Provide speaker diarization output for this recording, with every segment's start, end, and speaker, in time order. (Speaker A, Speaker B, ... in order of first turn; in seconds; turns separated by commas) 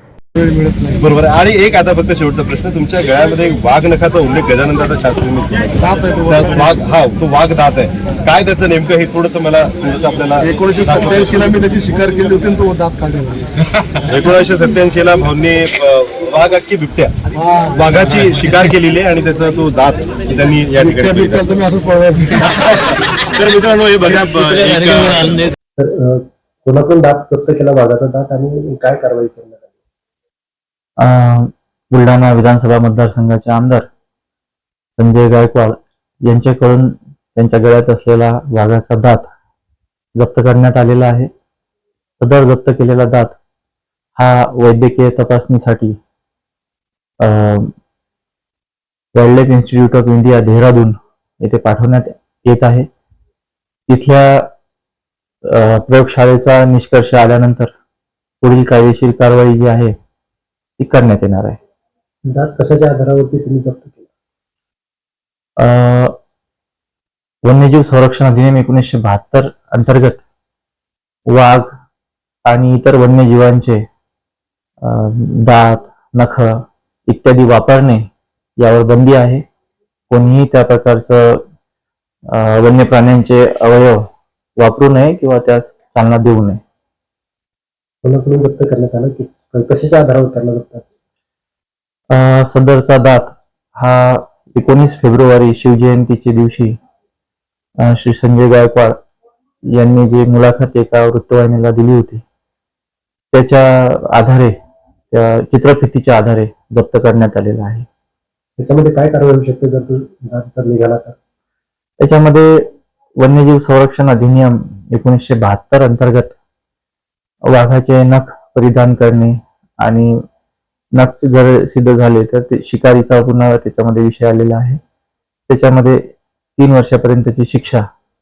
Speaker A: 0.4-0.9, Speaker B: 1.0-11.4, Speaker A: 5.8-6.5, Speaker A: 10.5-13.5, Speaker B: 14.0-17.1, Speaker B: 17.7-21.8, Speaker A: 20.8-22.4, Speaker B: 22.4-25.4, Speaker C: 25.8-29.7, Speaker D: 31.0-33.9, Speaker D: 35.0-39.3, Speaker D: 40.2-41.3, Speaker D: 42.2-43.4, Speaker D: 44.2-46.0, Speaker D: 47.2-47.7, Speaker D: 49.1-52.9, Speaker D: 53.9-54.5, Speaker D: 55.5-57.7, Speaker D: 58.4-59.9, Speaker D: 60.8-61.6, Speaker C: 62.3-64.1, Speaker D: 65.6-66.2, Speaker D: 67.5-70.2, Speaker D: 71.3-71.7, Speaker D: 72.5-73.8, Speaker D: 74.8-79.5, Speaker D: 80.1-81.4, Speaker D: 82.3-86.6, Speaker C: 88.0-90.8, Speaker D: 92.1-96.8, Speaker D: 97.8-99.0, Speaker D: 99.7-102.2, Speaker D: 103.3-104.5, Speaker D: 105.1-107.9, Speaker C: 108.6-111.2, Speaker D: 112.0-112.7, Speaker D: 113.2-116.4, Speaker D: 117.5-120.2, Speaker D: 121.0-124.8, Speaker D: 125.5-127.8